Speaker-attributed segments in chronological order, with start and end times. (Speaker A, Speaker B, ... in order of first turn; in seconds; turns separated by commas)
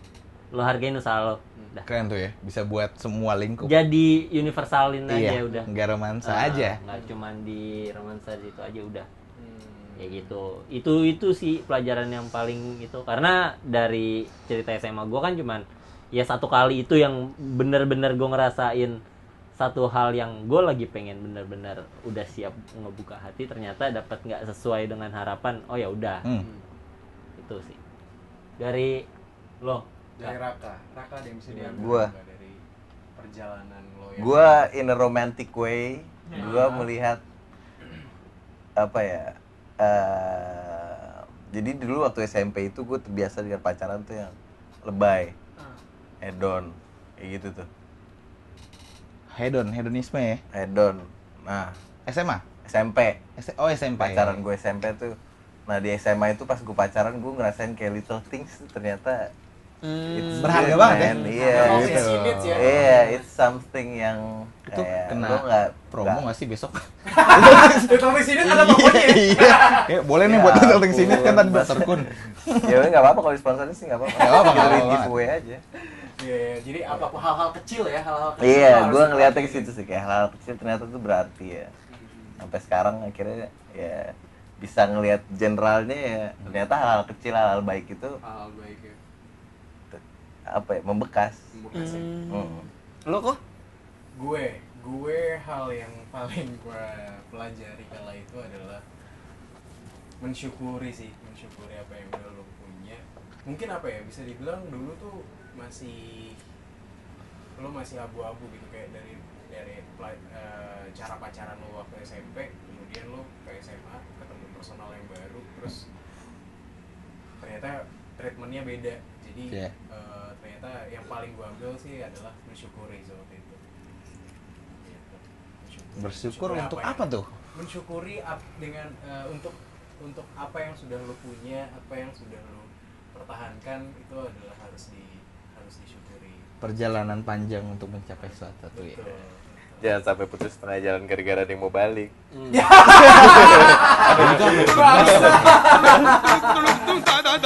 Speaker A: 0.5-1.8, Speaker B: 1.9-3.7, Speaker A: 3.6-5.7, Speaker B: 5.1-6.8, Speaker A: 6.2-9.1, Speaker C: 6.9-7.1, Speaker C: 9.3-10.3, Speaker A: 10.0-19.0, Speaker A: 19.6-26.2, Speaker C: 26.3-26.6, Speaker A: 27.4-27.8, Speaker A: 28.6-29.1, Speaker A: 29.6-30.4, Speaker C: 30.2-32.6, Speaker A: 31.5-31.8, Speaker D: 31.7-32.1, Speaker C: 33.1-34.6, Speaker D: 34.2-37.2, Speaker C: 36.3-36.9, Speaker D: 38.8-45.3, Speaker D: 46.2-47.7, Speaker B: 49.3-50.4, Speaker D: 50.5-51.8, Speaker B: 52.1-52.4, Speaker D: 52.6-53.2, Speaker B: 53.4-54.4, Speaker D: 54.0-55.1, Speaker D: 55.7-59.3, Speaker E: 59.8-61.9, Speaker D: 59.9-66.2, Speaker B: 60.4-62.9, Speaker C: 60.8-63.2, Speaker B: 64.7-72.8, Speaker C: 67.0-69.9, Speaker D: 70.2-72.1, Speaker D: 72.6-75.6, Speaker B: 74.2-75.1, Speaker C: 74.3-74.7, Speaker C: 76.2-79.7, Speaker D: 78.4-81.7, Speaker C: 81.9-82.4, Speaker D: 82.4-88.2, Speaker C: 88.2-89.0, Speaker D: 89.9-91.5, Speaker C: 91.5-92.5, Speaker E: 91.7-93.4, Speaker D: 92.3-92.7, Speaker C: 94.1-98.8, Speaker C: 100.2-106.4, Speaker C: 107.6-115.9, Speaker C: 117.4-123.6, Speaker C: 124.8-127.0, Speaker B: 126.0-127.3, Speaker C: 127.5-136.5, Speaker B: 136.6-139.2, Speaker C: 138.7-139.9, Speaker D: 139.8-142.1, Speaker C: 142.4-147.2, Speaker D: 142.9-145.5, Speaker B: 143.2-146.1